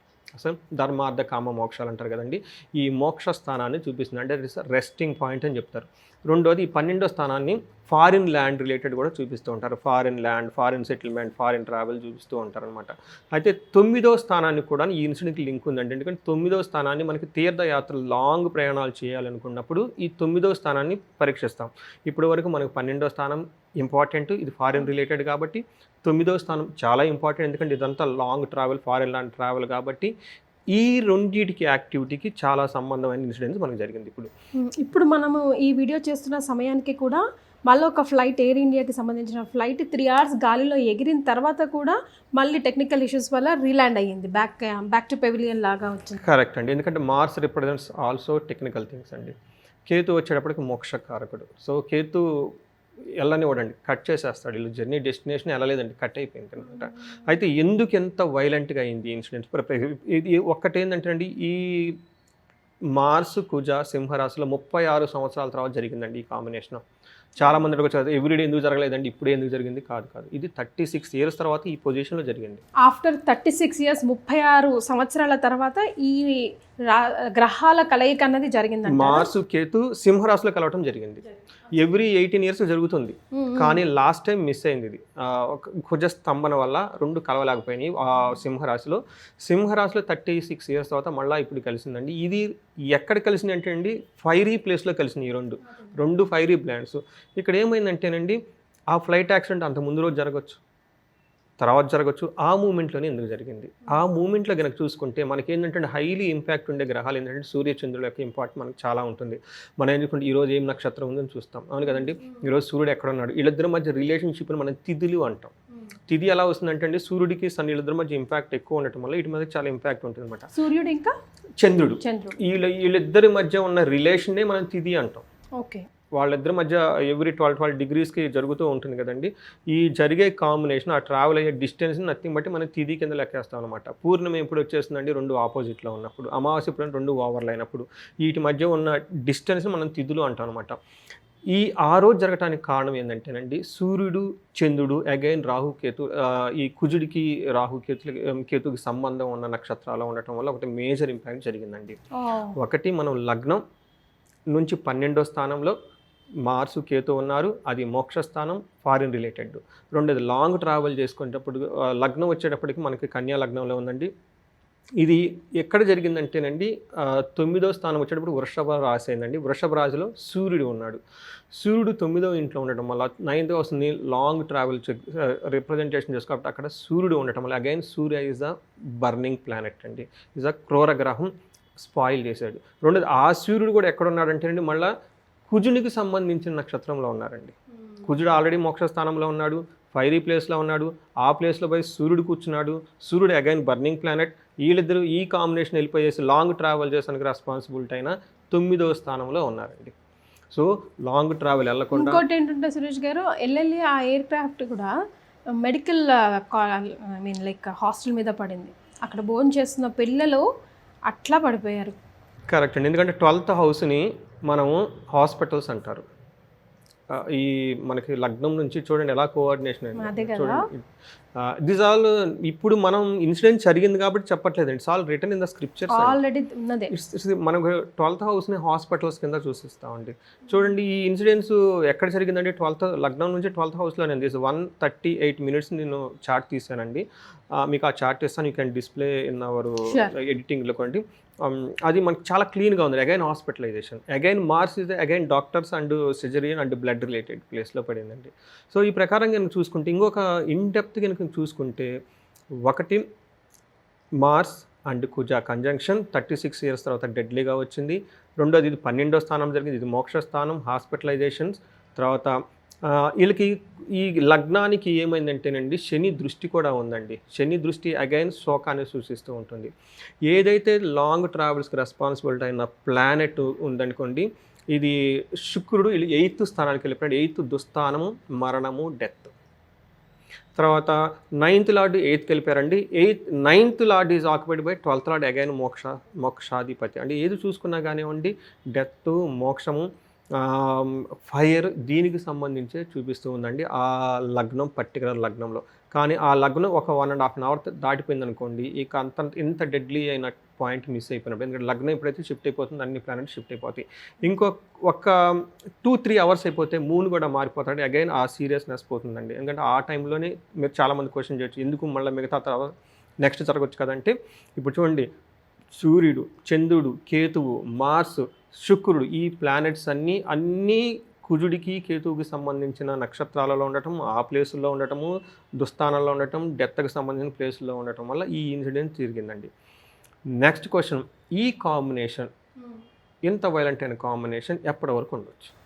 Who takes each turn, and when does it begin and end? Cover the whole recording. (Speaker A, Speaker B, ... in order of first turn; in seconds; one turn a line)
Speaker A: 0.3-30.1
Speaker A: 30.7-34.3
Speaker B: 34.6-46.2
Speaker A: 46.2-49.3
Speaker A: 49.9-52.2
Speaker A: 53.2-62.0
Speaker A: 62.9-66.8
Speaker A: 67.4-72.6
Speaker B: 72.8-79.3
Speaker A: 78.9-98.4
Speaker B: 83.3-83.8
Speaker A: 98.9-100.6
Speaker A: 101.6-115.5
Speaker A: 116.1-120.5
Speaker B: 120.5-121.1
Speaker A: 121.6-125.2
Speaker B: 122.0-122.4
Speaker B: 125.6-125.8
Speaker A: 126.2-140.8
Speaker A: 141.5-152.0
Speaker B: 152.2-152.6
Speaker A: 152.6-153.6
Speaker A: 154.5-155.8
Speaker A: 156.4-164.1
Speaker A: 165.0-171.0
Speaker A: 171.5-184.9
Speaker A: 185.5-199.9
Speaker A: 200.5-202.2
Speaker B: 201.9-204.9
Speaker B: 205.6-210.4
Speaker B: 211.1-211.9
Speaker A: 212.5-216.1
Speaker A: 217.1-220.8
Speaker B: 220.0-220.6
Speaker A: 221.4-226.2
Speaker B: 225.9-226.9
Speaker A: 226.9-251.9
Speaker A: 252.6-253.0
Speaker A: 254.2-269.7
Speaker A: 270.2-279.3
Speaker A: 280.6-312.7
Speaker A: 313.2-315.1
Speaker A: 315.7-329.5
Speaker A: 330.4-332.3
Speaker A: 333.2-335.5